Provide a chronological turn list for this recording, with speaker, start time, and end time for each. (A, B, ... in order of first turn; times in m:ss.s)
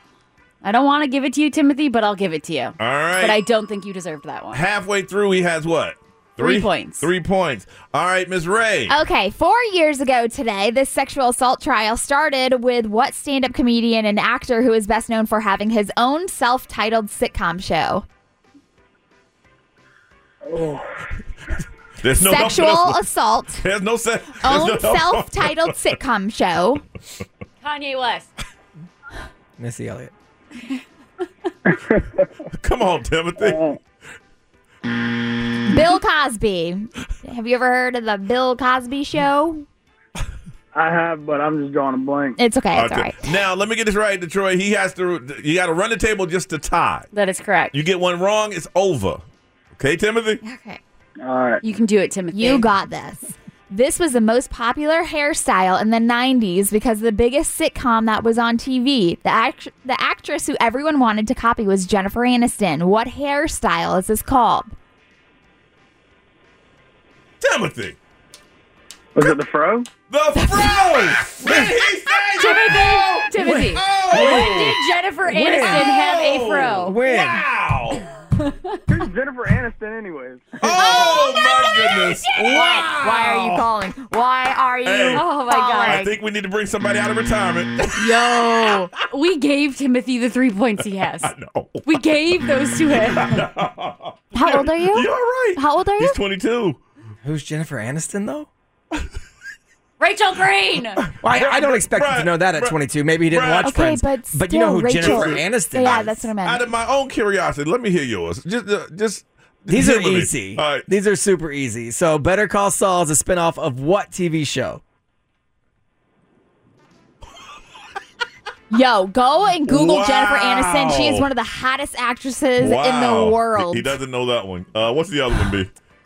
0:00.6-0:04.6 A
0:02.8-0:03.4 B
0:04.5-0:08.9 B
0:06.4-0:07.1 A
0:08.9-0:18.0 C
0:20.4-0:20.8 D
0:22.0-0:23.0 B
0:22.2-0:23.6 C
0:23.6-0:25.7 B
0:24.4-0:26.8 C
0:27.6-0:28.3 A
0:29.6-0:30.1 E
0:31.7-0:32.2 D
0:32.5-0:33.6 B
0:33.4-0:33.8 D
0:35.7-0:39.6 C
0:40.7-0:42.4 D
0:42.4-0:43.2 C
0:42.7-0:47.1 B
0:47.1-0:47.7 A
0:47.7-0:49.2 B
0:49.8-0:50.4 B
0:50.4-0:50.8 C
0:51.2-0:51.6 D
0:51.6-0:52.7 A
0:52.3-1:04.7 C
1:07.4-1:08.0 B
1:09.1-1:09.9 D
1:10.1-1:14.8 B
1:12.4-1:16.9 A
1:13.4-1:14.7 E
1:15.2-1:15.9 E
1:15.5-1:18.0 B
1:16.7-1:17.4 E
1:18.9-1:20.6 D
1:20.6-1:23.6 B
1:20.7-1:21.2 A
1:20.7-1:21.3 C
1:22.5-1:26.1 C
1:24.8-1:25.2 B
1:25.1-1:26.0 A
1:25.8-1:28.8 B
1:28.0-1:31.3 A
1:31.2-1:31.8 B
1:31.8-1:33.4 A
1:32.9-1:36.8 B
1:34.3-1:36.2 C
1:37.2-1:38.5 E
1:40.0-1:41.0 A
1:41.2-1:46.1 E
1:41.3-1:43.8 B
1:43.6-1:46.7 C
1:45.0-1:50.8 B
1:49.7-1:54.8 E
1:58.7-2:04.0 C
1:59.7-2:01.2 B
2:02.6-2:05.7 B